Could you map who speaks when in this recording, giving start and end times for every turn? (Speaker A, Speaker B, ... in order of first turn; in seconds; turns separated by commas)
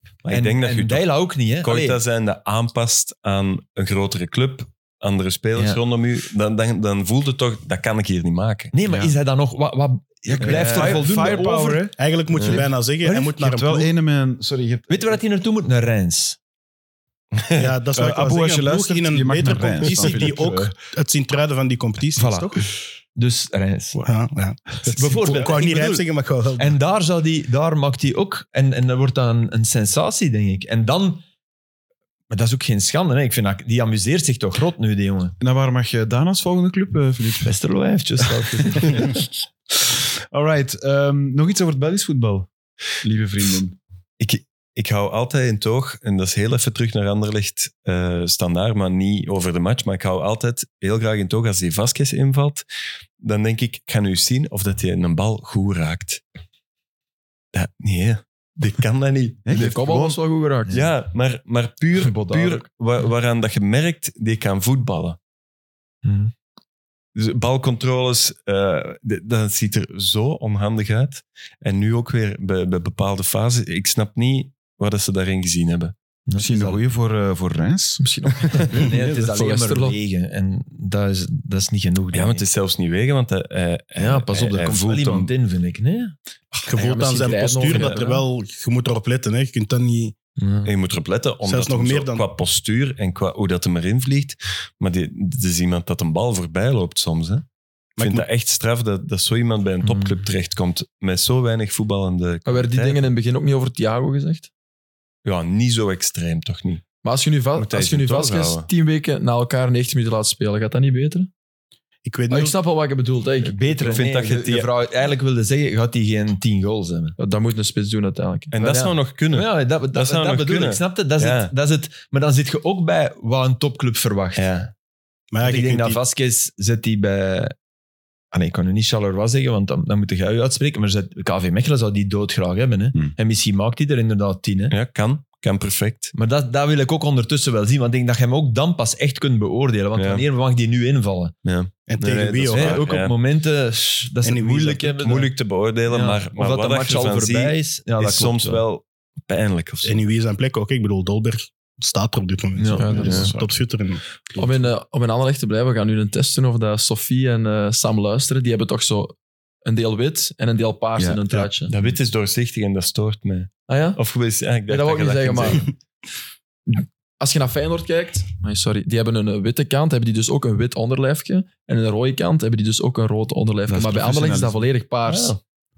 Speaker A: 0.2-8.7, Speaker B: 0.3-2.0, Speaker B: 8.7-11.8, Speaker C: 8.9-9.1, Speaker C: 10.2-15.2, Speaker A: 10.4-11.1, Speaker D: 12.0-13.9, Speaker A: 12.3-12.6, Speaker B: 14.9-16.4, Speaker A: 17.3-17.7, Speaker D: 17.6-22.6, Speaker C: 17.9-20.7, Speaker C: 22.2-22.5, Speaker B: 23.1-24.0, Speaker D: 23.9-26.8, Speaker B: 24.9-26.0, Speaker B: 26.6-31.2, Speaker B: 32.3-35.3, Speaker C: 35.4-37.5, Speaker B: 37.4-39.2, Speaker C: 38.8-39.1, Speaker C: 40.3-42.5, Speaker C: 43.0-43.8, Speaker A: 44.2-52.6, Speaker A: 53.2-56.2, Speaker A: 57.5-59.8, Speaker C: 59.4-60.2, Speaker E: 59.5-60.7, Speaker A: 60.7-65.2, Speaker B: 62.0-62.6, Speaker B: 66.0-66.3, Speaker A: 67.1-75.9, Speaker B: 76.3-76.8, Speaker C: 76.4-78.0, Speaker E: 78.0-80.0, Speaker B: 78.7-82.5, Speaker A: 82.1-85.3, Speaker B: 84.0-86.1, Speaker D: 86.7-90.2, Speaker E: 86.7-88.2, Speaker B: 87.7-88.1, Speaker B: 90.4-90.7, Speaker A: 90.6-97.4, Speaker D: 91.4-92.2, Speaker D: 98.0-98.2, Speaker A: 98.0-103.0, Speaker B: 99.8-100.2, Speaker E: 102.4-104.5, Speaker A: 105.2-106.8, Speaker E: 107.0-111.3, Speaker A: 107.6-108.7, Speaker D: 112.0-112.6, Speaker E: 112.3-114.0, Speaker B: 113.4-117.2, Speaker A: 113.9-114.7, Speaker E: 117.2-118.5, Speaker A: 118.5-121.5, Speaker B: 118.6-124.5, Speaker A: 124.3-124.7, Speaker D: 125.3-126.0, Speaker B: 125.4-127.5, Speaker B: 128.3-134.7, Speaker A: 134.7-136.1, Speaker B: 136.1-141.3, Speaker A: 139.9-140.2, Speaker A: 141.4-143.1, Speaker D: 141.9-142.8, Speaker B: 142.5-145.3, Speaker D: 144.2-145.0, Speaker A: 145.0-150.0, Speaker B: 145.9-148.6, Speaker D: 149.8-154.0, Speaker B: 152.6-153.0, Speaker E: 152.8-153.3, Speaker C: 152.9-153.6, Speaker E: 154.3-161.7, Speaker C: 161.0-161.5, Speaker A: 161.7-165.7, Speaker E: 163.7-164.0, Speaker E: 164.7-165.7, Speaker E: 166.7-175.4, Speaker C: 173.7-174.7, Speaker A: 175.1-175.4